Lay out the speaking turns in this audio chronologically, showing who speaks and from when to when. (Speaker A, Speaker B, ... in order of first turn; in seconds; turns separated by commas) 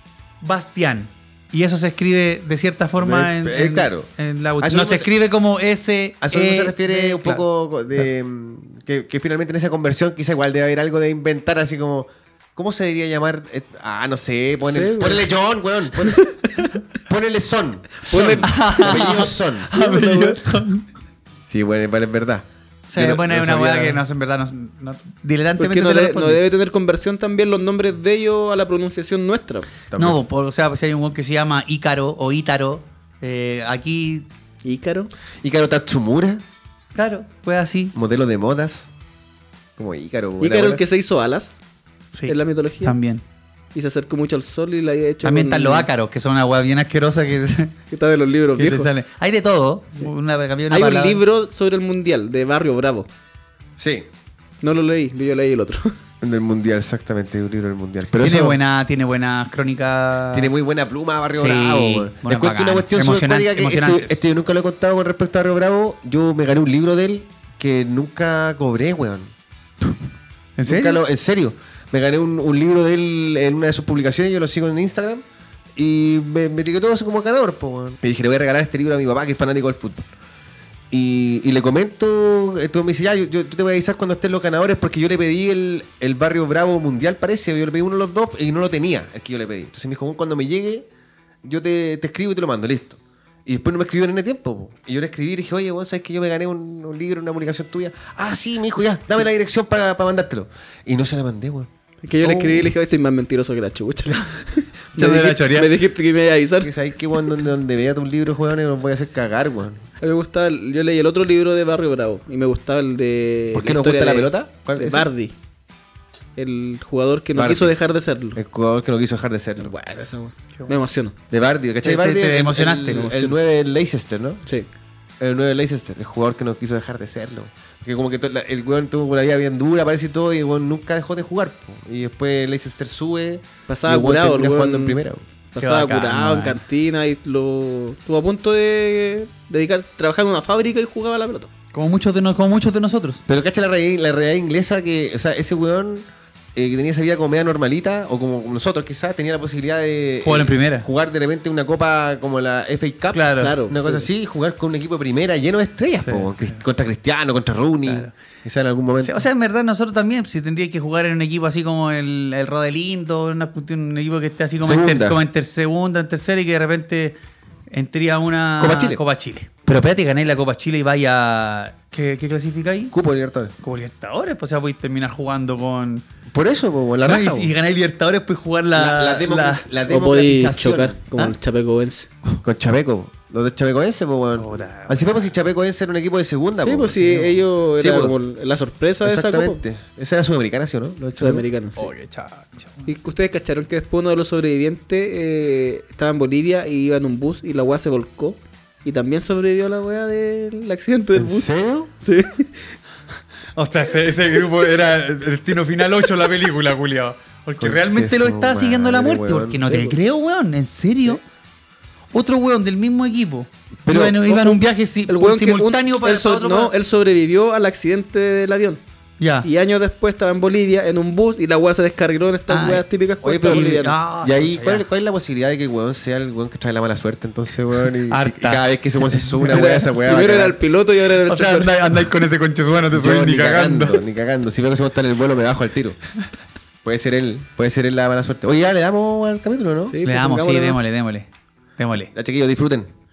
Speaker A: 0.4-7.4, Speaker B: 3.0-4.1, Speaker B: 4.6-5.1, Speaker B: 6.2-16.3, Speaker C: 14.6-15.2, Speaker B: 16.9-20.3, Speaker C: 18.1-19.0, Speaker A: 18.4-20.9, Speaker B: 21.5-24.0, Speaker A: 22.9-26.4, Speaker C: 25.6-29.7, Speaker B: 29.9-30.2, Speaker A: 29.9-34.3, Speaker C: 34.6-35.1, Speaker B: 35.4-36.4, Speaker A: 36.9-37.9, Speaker B: 37.9-38.9, Speaker B: 39.8-40.9, Speaker C: 40.4-41.6, Speaker A: 42.1-43.2, Speaker C: 42.3-43.0, Speaker C: 43.7-45.9, Speaker A: 45.2-47.8, Speaker C: 47.9-48.9, Speaker A: 48.6-51.2, Speaker C: 50.7-53.1, Speaker B: 53.8-54.0, Speaker C: 54.6-55.9, Speaker B: 56.2-58.6, Speaker A: 58.2-60.5, Speaker B: 60.3-69.3, Speaker A: 61.4-64.2, Speaker A: 70.6-71.0, Speaker B: 70.7-75.2, Speaker B: 75.8-80.1, Speaker B: 80.9-90.9, Speaker B: 91.4-101.7, Speaker C: 102.0-106.7, Speaker A: 102.2-102.7, Speaker A: 105.0-105.7, Speaker B: 106.6-109.8, Speaker C: 110.0-115.3, Speaker B: 113.5-115.1, Speaker C: 116.4-118.4, Speaker B: 117.3-117.7, Speaker B: 118.3-119.7, Speaker C: 119.6-121.1, Speaker B: 121.3-124.4, Speaker A: 121.8-123.1, Speaker C: 122.9-123.3, Speaker B: 125.2-135.2, Speaker C: 133.7-135.0, Speaker C: 135.5-141.5, Speaker A: 135.6-136.6, Speaker A: 141.7-143.2, Speaker B: 143.3-159.2, Speaker A: 150.2-150.8, Speaker A: 153.1-153.6, Speaker C: 153.4-154.1, Speaker A: 156.0-156.6, Speaker A: 157.9-158.1, Speaker A: 159.0-167.2, Speaker B: 164.6-165.2, Speaker A: 167.7-172.9, Speaker B: 168.6-169.0, Speaker B: 172.9-173.5, Speaker A: 173.6-176.1, Speaker B: 176.3-177.5, Speaker A: 177.0-179.7, Speaker B: 178.7-181.0, Speaker C: 179.9-182.1, Speaker B: 182.4-188.1, Speaker A: 184.3-185.3, Speaker C: 186.6-189.6, Speaker B: 189.0-191.4, Speaker C: 191.0-191.9, Speaker A: 191.8-192.9, Speaker C: 192.9-201.5, Speaker B: 201.1-201.9, Speaker C: 202.0-202.8, Speaker A: 203.6-211.2, Speaker B: 207.6-209.6, Speaker C: 209.7-210.0, Speaker A: 212.1-216.7, Speaker B: 213.8-214.4, Speaker C: 215.1-218.8, Speaker A: 219.2-219.5, Speaker C: 219.4-223.9, Speaker A: 222.5-222.8, Speaker B: 223.2-230.6, Speaker A: 223.5-224.8, Speaker A: 228.1-229.6, Speaker C: 229.5-231.7, Speaker A: 231.3-234.0, Speaker B: 232.9-236.0, Speaker B: 236.8-240.0, Speaker C: 239.9-240.8, Speaker A: 240.0-242.1, Speaker B: 242.1-242.9